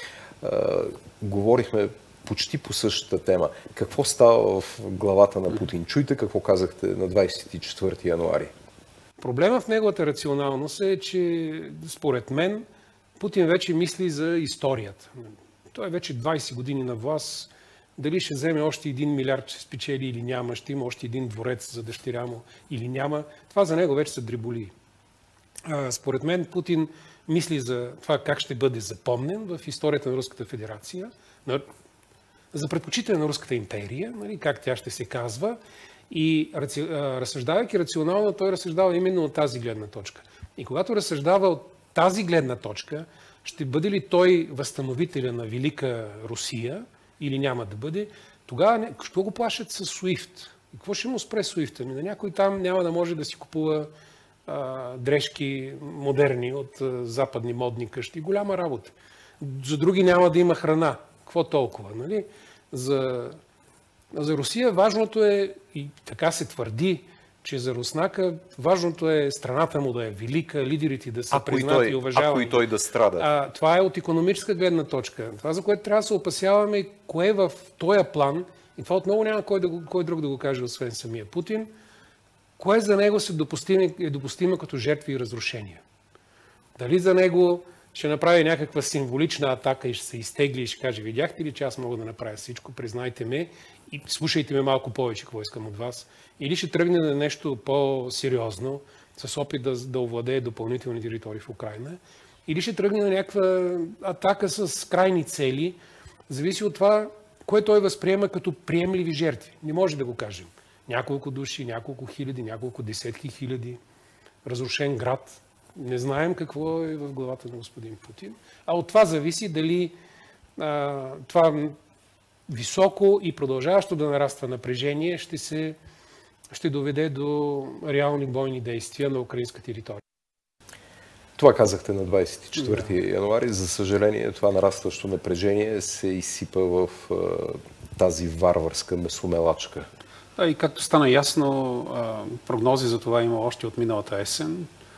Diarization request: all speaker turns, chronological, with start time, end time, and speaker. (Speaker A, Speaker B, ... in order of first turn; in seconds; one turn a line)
Speaker A: 0.4-8.5
Speaker B: 9.2-12.6
Speaker B: 13.2-24.7
Speaker B: 25.6-31.6
Speaker B: 32.5-35.6
Speaker B: 36.1-53.9
Speaker B: 54.5-63.4
Speaker B: 64.1-72.6
Speaker A: 71.3-73.3
Speaker B: 73.2-81.7
Speaker B: 82.6-85.8
Speaker B: 86.8-105.8
Speaker B: 106.3-113.8
Speaker B: 114.4-119.9
Speaker B: 120.6-121.7
Speaker B: 122.5-125.8
Speaker B: 126.5-130.0
Speaker A: 131.4-139.9
Speaker B: 140.4-144.7